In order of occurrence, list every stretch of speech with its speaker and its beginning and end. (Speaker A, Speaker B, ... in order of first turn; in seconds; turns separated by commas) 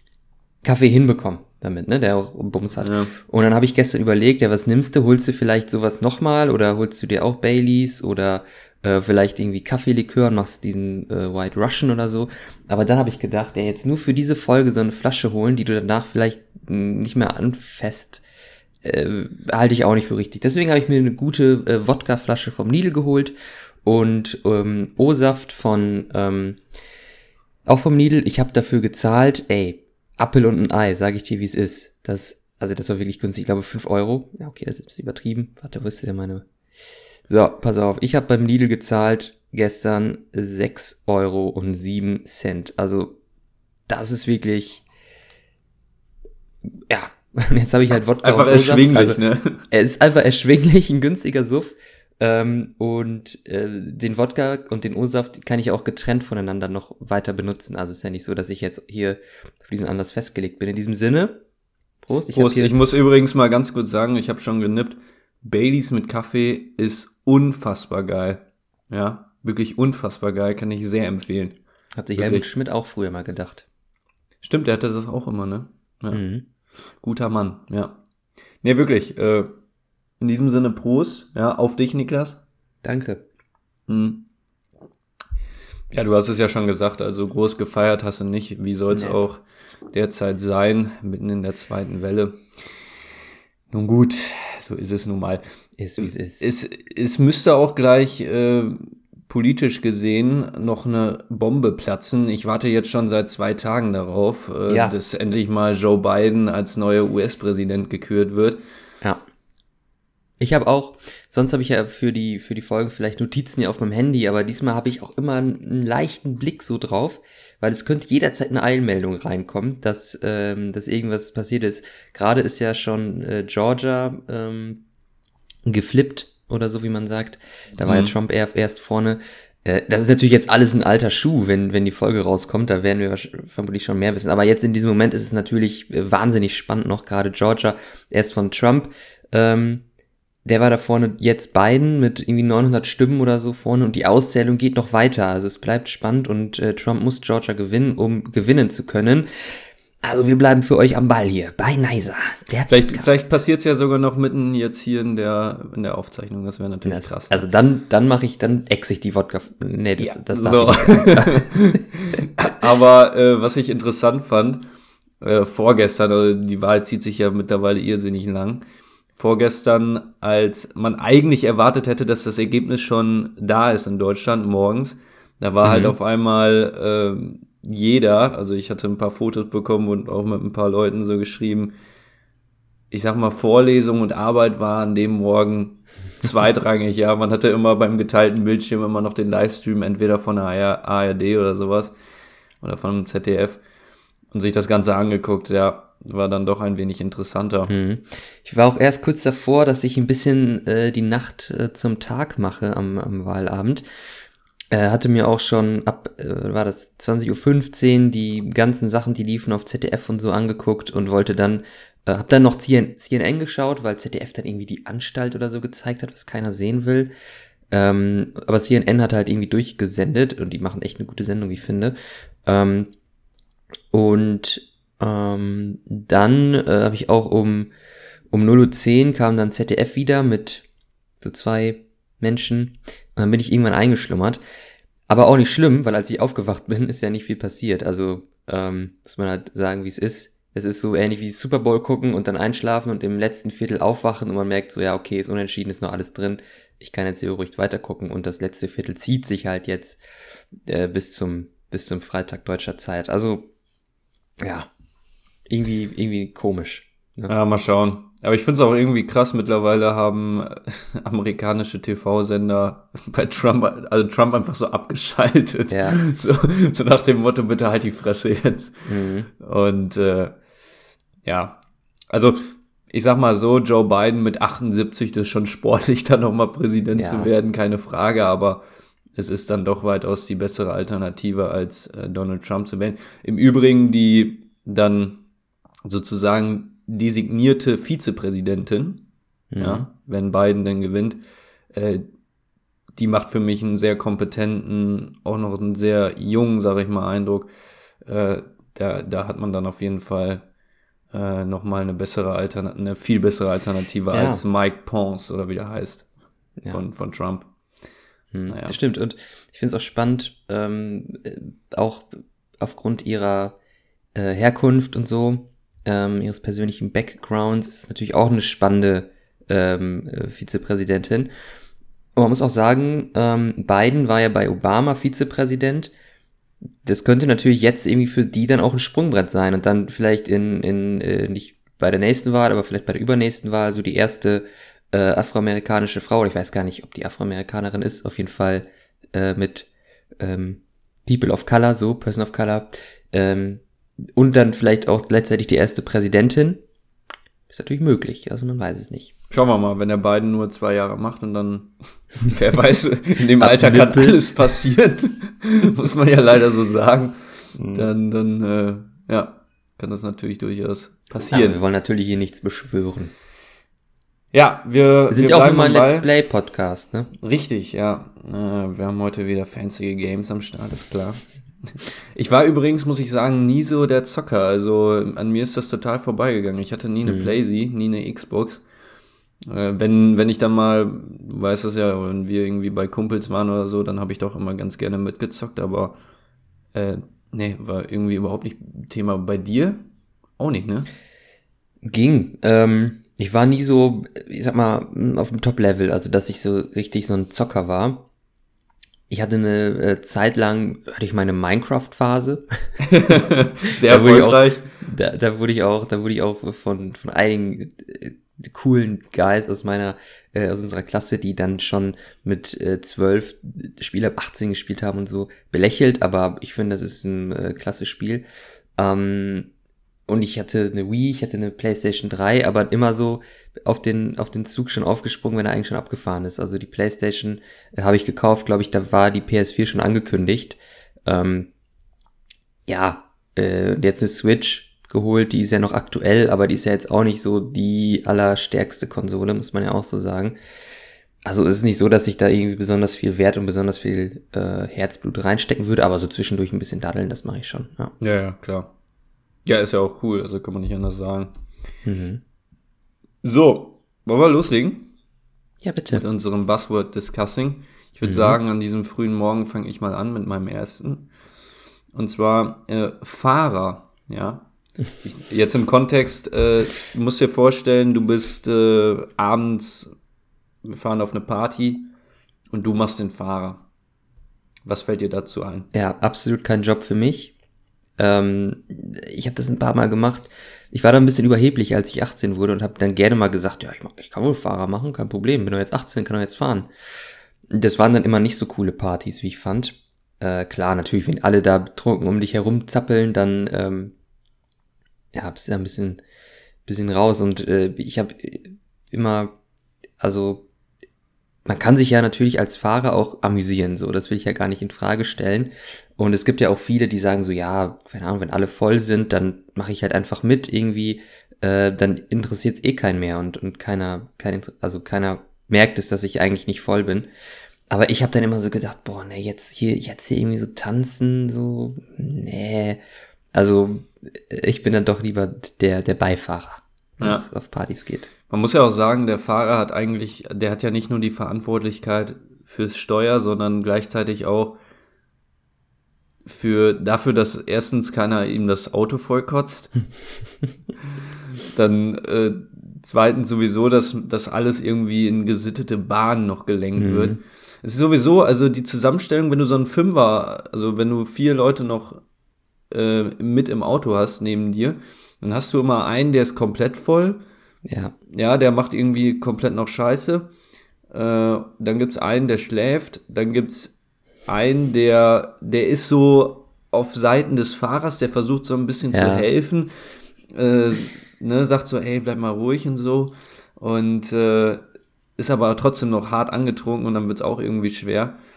Speaker A: 0.6-18.2, Speaker B: 2.8-3.1, Speaker A: 18.8-26.6, Speaker A: 27.7-36.5, Speaker A: 37.3-43.2, Speaker A: 43.9-44.8, Speaker A: 46.9-61.4, Speaker B: 48.2-49.7, Speaker A: 62.0-62.8, Speaker B: 62.3-71.6, Speaker A: 72.0-73.7, Speaker B: 72.2-72.5, Speaker B: 74.4-76.2, Speaker A: 76.1-76.5, Speaker B: 77.0-78.0, Speaker B: 78.6-79.5, Speaker B: 80.2-82.4, Speaker A: 82.8-83.2, Speaker B: 83.9-84.3, Speaker B: 85.9-92.5, Speaker A: 88.9-89.2, Speaker B: 93.7-95.4, Speaker A: 95.8-96.5, Speaker B: 96.4-108.6, Speaker A: 104.7-105.0, Speaker A: 110.4-124.8, Speaker A: 125.7-139.8, Speaker B: 127.8-128.2, Speaker A: 140.4-153.4, Speaker B: 152.7-157.5, Speaker A: 156.8-161.5, Speaker B: 160.0-164.7, Speaker B: 165.2-168.6, Speaker B: 169.2-181.7, Speaker A: 175.6-176.0, Speaker B: 182.9-191.9, Speaker B: 192.6-193.6, Speaker B: 194.3-197.7, Speaker A: 197.7-203.8, Speaker A: 204.7-217.1, Speaker A: 217.7-221.9, Speaker A: 222.5-222.9, Speaker A: 223.9-227.7, Speaker A: 228.3-230.7, Speaker A: 231.2-234.4, Speaker A: 235.1-250.0, Speaker A: 250.7-253.5, Speaker A: 254.4-254.7, Speaker A: 255.5-257.3, Speaker B: 257.3-270.4, Speaker A: 265.7-266.0, Speaker A: 268.9-269.3, Speaker B: 271.2-278.6, Speaker A: 277.0-277.3, Speaker B: 279.2-285.2, Speaker B: 285.9-289.1, Speaker A: 289.5-289.9, Speaker B: 289.6-291.2, Speaker B: 291.7-292.1, Speaker B: 293.0-297.5, Speaker B: 298.1-300.4, Speaker B: 301.1-306.1, Speaker A: 304.1-304.4, Speaker B: 306.7-307.5, Speaker A: 308.3-313.6, Speaker B: 308.5-308.8, Speaker A: 314.1-321.3, Speaker A: 322.2-325.9, Speaker A: 326.8-339.7, Speaker A: 340.2-343.6, Speaker A: 344.1-346.6, Speaker A: 347.5-349.1, Speaker B: 349.3-357.2, Speaker A: 353.4-354.2, Speaker A: 357.6-357.9, Speaker B: 357.7-361.6, Speaker A: 361.3-363.1, Speaker B: 364.3-366.1, Speaker A: 365.1-367.1, Speaker B: 367.2-378.6, Speaker A: 377.1-377.4, Speaker B: 379.5-386.0, Speaker B: 386.7-389.8, Speaker B: 390.4-390.9, Speaker A: 391.8-398.1, Speaker A: 399.1-402.4, Speaker B: 402.8-404.7, Speaker A: 403.9-418.2, Speaker A: 418.8-419.5, Speaker A: 420.1-431.5, Speaker A: 432.7-440.4, Speaker A: 441.2-447.9, Speaker B: 448.0-448.7, Speaker B: 449.4-451.3, Speaker A: 451.9-452.2, Speaker B: 453.2-454.9, Speaker A: 455.6-456.0, Speaker B: 455.9-461.1, Speaker A: 458.0-458.4, Speaker B: 461.9-464.5, Speaker B: 465.0-469.9, Speaker B: 470.6-471.9, Speaker B: 472.5-473.6, Speaker B: 474.7-475.7, Speaker A: 475.7-477.3, Speaker A: 478.0-486.7, Speaker A: 487.5-493.9, Speaker A: 495.1-496.0, Speaker A: 496.7-499.4, Speaker A: 500.0-500.5, Speaker A: 501.5-517.1, Speaker A: 517.7-522.8, Speaker A: 523.3-528.1, Speaker B: 527.0-527.3, Speaker B: 528.3-534.6, Speaker B: 536.3-539.8, Speaker B: 541.5-552.0, Speaker A: 546.8-547.2, Speaker B: 552.7-557.2, Speaker A: 557.6-557.9, Speaker B: 558.1-560.3, Speaker B: 560.9-563.8, Speaker B: 564.3-569.7, Speaker A: 568.9-569.3, Speaker B: 570.3-574.6, Speaker B: 575.2-578.2